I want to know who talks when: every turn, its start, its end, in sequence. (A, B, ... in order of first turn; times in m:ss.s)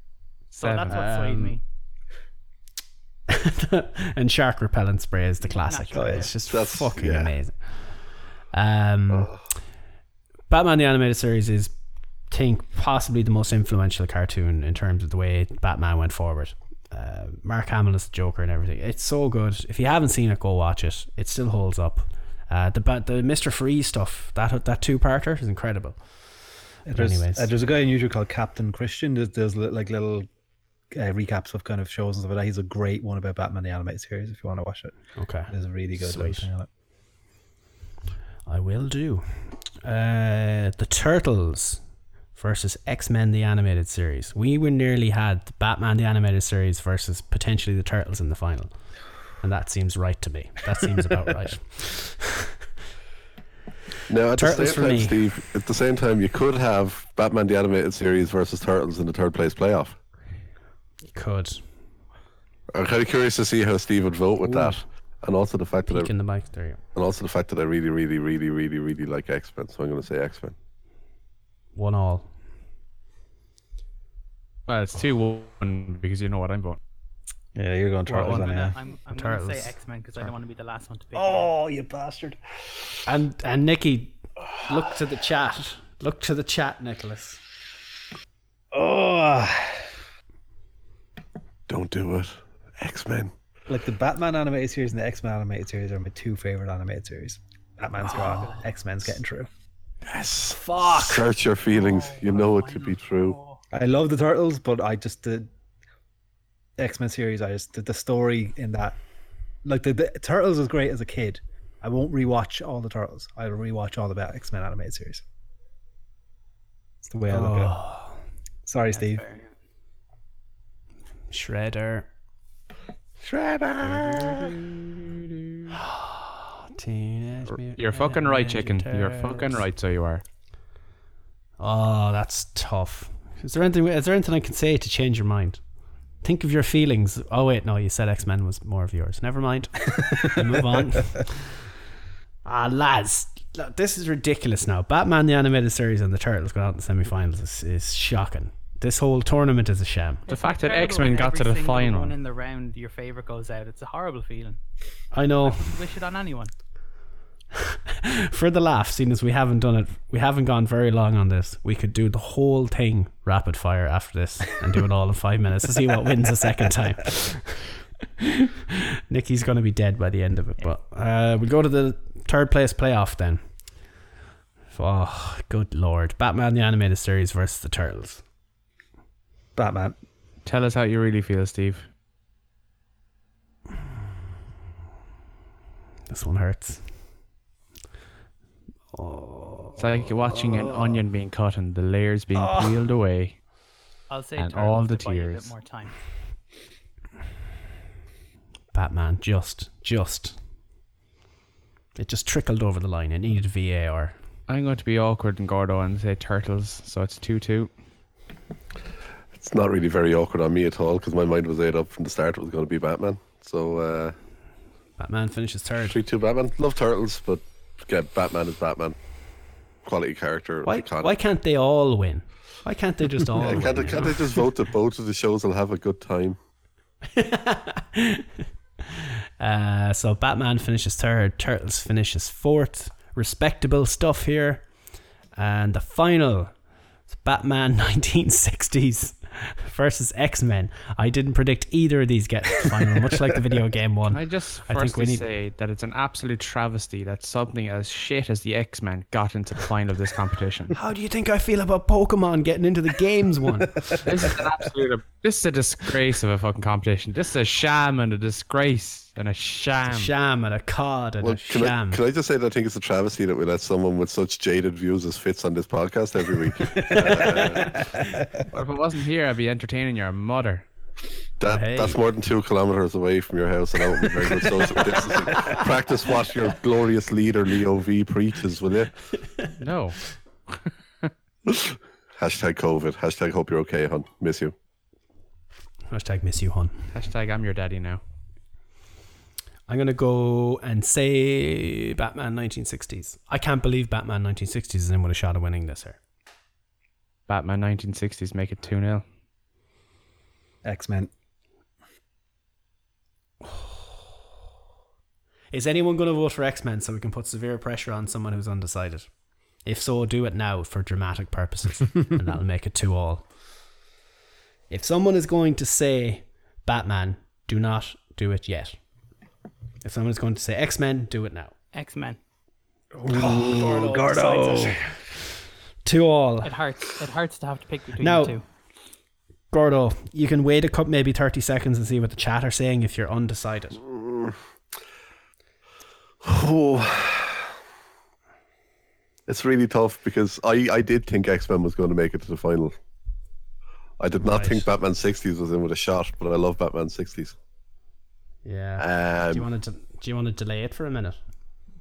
0:00.6-0:01.6 A
0:00.6-0:01.1 B
0:00.9-0:01.6 C
0:03.3-0:08.0 C
0:05.4-0:06.3 A
0:05.9-0:06.3 D
0:06.5-0:07.3 E
0:08.5-0:09.3 C
0:09.1-0:09.4 E
0:10.5-0:11.8 C
0:12.3-0:27.5 C
0:26.8-0:30.3 D
0:30.9-0:35.0 D
0:35.2-0:36.5 C
0:35.5-0:36.7 D
0:38.5-0:41.8 C
0:42.3-0:48.8 C
0:49.4-0:52.5 C
0:54.1-1:00.0 E
0:54.4-0:55.2 C
1:01.1-1:01.6 C
1:02.7-1:06.1 E
1:04.4-1:04.8 C
1:05.9-1:06.8 C
1:07.0-1:10.6 E
1:11.8-1:12.3 C
1:14.7-1:16.8 B
1:17.6-1:18.8 D
1:18.1-1:21.5 A
1:19.1-1:19.8 C
1:21.1-1:22.4 D
1:23.1-1:27.4 C
1:28.7-1:29.9 D
1:31.7-1:33.3 E
1:33.7-1:39.5 D
1:38.0-1:38.6 A
1:40.0-1:43.4 E
1:40.7-1:41.2 D
1:41.7-1:43.6 A
1:43.7-1:45.5 D
1:46.8-1:49.0 D
1:49.6-1:55.2 D
1:57.0-1:57.8 D
1:57.3-1:58.2 C
1:58.7-1:59.2 D
1:58.9-1:59.5 A
2:01.3-2:02.1 C
2:03.2-2:04.6 E
2:03.8-2:04.1 C
2:05.3-2:05.7 B
2:05.7-2:09.6 C
2:07.7-2:10.2 B
2:11.6-2:15.6 C
2:16.2-2:21.6 C
2:22.4-2:30.2 C
2:30.3-2:34.6 A
2:30.3-2:32.2 B
2:35.1-2:35.6 C
2:35.4-2:36.5 A
2:37.9-2:53.4 C
2:54.7-2:58.2 C
2:59.6-3:00.0 D
3:00.4-3:01.9 B
3:06.1-3:06.8 C
3:08.9-3:09.8 C
3:09.8-3:13.4 B
3:14.1-3:15.9 A
3:14.4-3:15.5 B
3:18.7-3:20.4 C
3:22.0-3:24.2 C
3:24.5-3:27.7 B
3:29.4-3:34.2 E
3:35.0-3:36.0 C
3:35.8-3:39.0 E
3:39.8-3:41.2 E
3:40.6-3:44.2 C
3:43.4-3:46.4 E
3:47.1-3:48.3 C
3:49.0-3:54.7 C
3:55.4-3:56.5 C
3:57.1-4:05.2 C
4:04.1-4:10.8 B
4:10.7-4:14.3 C
4:14.0-4:20.1 B
4:19.8-4:22.0 C
4:21.2-4:27.9 E
4:26.4-4:28.4 D
4:28.5-4:30.6 B
4:31.4-4:38.9 E
4:31.5-4:32.0 C
4:39.6-4:41.1 B
4:41.5-4:44.5 E
4:45.9-4:46.9 C
4:46.9-4:48.0 B
4:49.7-4:56.0 C
4:57.3-4:59.0 B
5:00.6-5:01.1 D
5:05.5-5:09.1 C
5:09.6-5:13.2 C
5:14.7-5:18.8 C
5:19.8-5:21.5 C
5:21.7-5:22.2 A
5:22.9-5:24.8 D
5:23.5-5:24.7 C
5:23.6-5:24.2 A
5:25.8-5:26.5 C
5:26.4-5:28.4 A
5:28.0-5:28.4 C
5:29.5-5:33.8 C
5:33.8-5:34.4 E
5:36.2-5:37.5 E
5:39.3-5:42.8 E
5:44.0-5:47.4 E
5:44.2-5:44.7 C
5:48.4-5:51.2 C
5:48.8-5:49.5 E